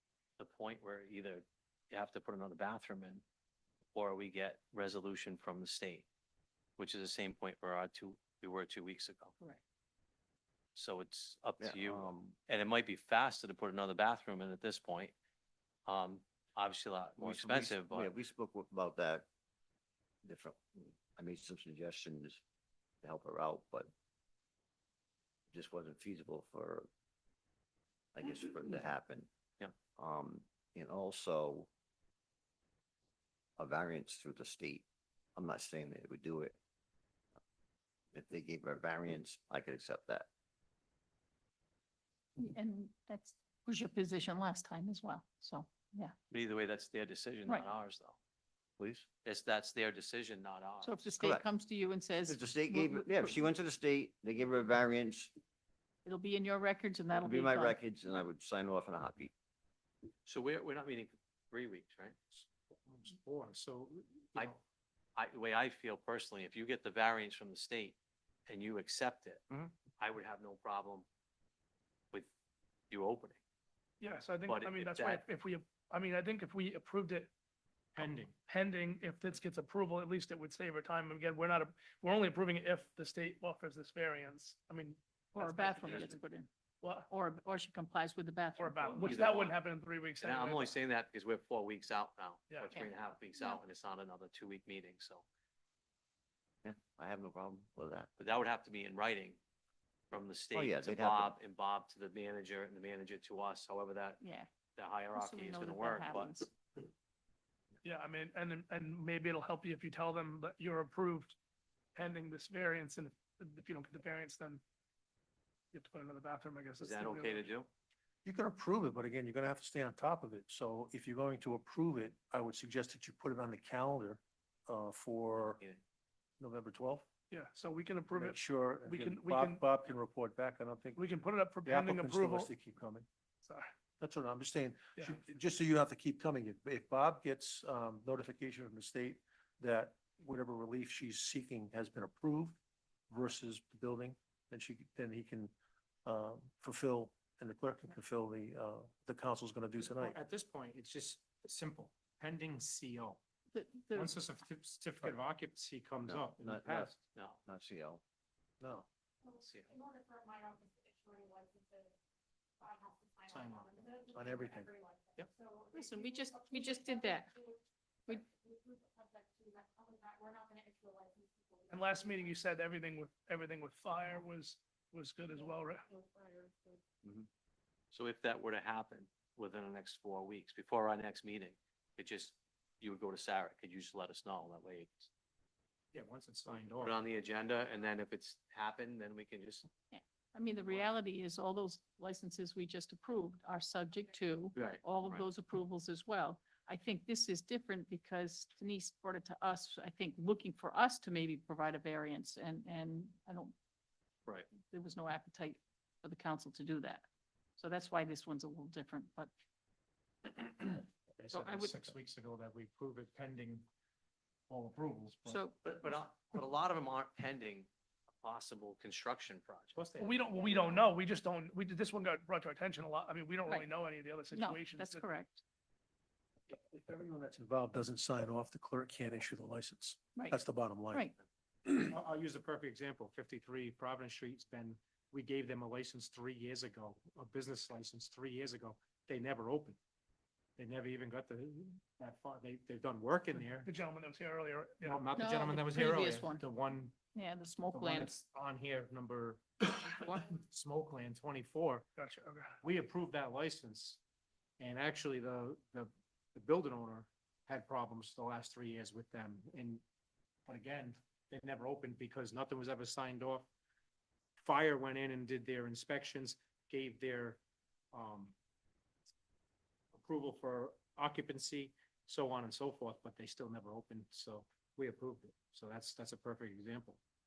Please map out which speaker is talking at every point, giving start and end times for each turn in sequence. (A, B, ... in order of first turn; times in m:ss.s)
0:00.4-0:03.2 A
0:03.9-0:06.0 A
0:06.8-0:09.4 A
0:10.7-0:15.1 A
0:11.6-0:12.3 B
0:15.8-0:18.1 A
0:17.2-0:19.3 B
0:20.2-0:22.4 B
0:23.0-0:23.9 B
0:25.5-0:26.9 B
0:28.1-0:29.3 B
0:30.0-0:31.7 B
0:33.6-0:36.6 B
0:38.1-0:40.3 B
0:42.4-0:46.1 C
0:46.3-0:48.2 A
0:48.8-0:49.1 B
0:49.2-0:51.0 A
0:50.8-0:53.4 C
0:51.2-0:51.5 B
0:52.2-0:55.3 B
0:56.0-0:57.8 C
0:57.1-0:59.3 B
1:00.2-1:02.2 A
1:02.8-1:04.6 D
1:05.2-1:08.0 A
1:08.5-1:09.4 A
1:10.0-1:11.0 A
1:12.9-1:13.4 A
1:14.0-1:17.3 E
1:14.5-1:15.2 A
1:18.0-1:18.3 D
1:18.0-1:26.2 E
1:25.3-1:26.5 C
1:25.5-1:26.1 A
1:26.8-1:27.1 E
1:27.1-1:29.3 C
1:28.6-1:30.7 E
1:29.0-1:29.5 A
1:30.2-1:35.2 A
1:32.7-1:33.6 C
1:36.6-1:38.1 B
1:38.2-1:39.4 A
1:40.1-1:44.2 A
1:40.5-1:41.4 B
1:44.2-1:44.5 C
1:44.7-1:46.4 A
1:45.1-1:46.5 C
1:47.8-1:51.4 E
1:51.9-1:54.6 E
1:55.7-1:57.5 E
1:56.8-1:57.7 A
1:58.2-2:05.6 F
2:06.4-2:07.0 F
2:07.3-2:09.6 E
2:08.1-2:11.0 F
2:11.0-2:12.5 E
2:11.6-2:13.0 F
2:13.4-2:13.7 E
2:14.0-2:22.6 F
2:23.1-2:25.5 F
2:26.0-2:30.2 F
2:29.8-2:33.2 D
2:33.5-2:34.1 C
2:33.9-2:37.0 D
2:36.0-2:36.9 B
2:37.1-2:37.4 A
2:37.4-2:38.0 B
2:38.6-2:38.9 F
2:39.4-2:39.7 A
2:39.7-2:41.9 G
2:42.6-2:51.8 G
2:43.3-2:44.0 D
2:44.1-2:44.7 F
2:45.7-2:47.4 C
2:51.7-2:55.8 E
2:55.9-2:56.8 G
2:57.9-3:05.1 A
3:05.9-3:07.0 D
3:06.5-3:09.7 A
3:09.9-3:23.5 C
3:14.5-3:15.2 A
3:24.6-3:27.0 C
3:27.6-3:29.3 C
3:30.2-3:33.6 D
3:31.3-3:31.9 C
3:34.5-3:35.4 D
3:35.3-3:35.6 C
3:35.6-3:37.7 A
3:38.2-3:39.8 A
3:39.7-3:40.9 D
3:40.0-3:45.0 E
3:44.3-3:45.4 C
3:46.5-3:51.1 F
3:51.6-3:51.9 F
3:51.8-3:59.8 D
4:00.6-4:03.7 D
4:03.6-4:05.0 E
4:04.8-4:07.0 D
4:05.1-4:06.4 C
4:07.1-4:08.1 C
4:07.7-4:11.8 D
4:09.8-4:10.3 C
4:12.0-4:12.6 E
4:12.6-4:14.0 D
4:14.6-4:19.8 D
4:20.4-4:23.5 D
4:24.4-4:27.4 D
4:27.9-4:28.3 D
4:29.9-4:37.0 D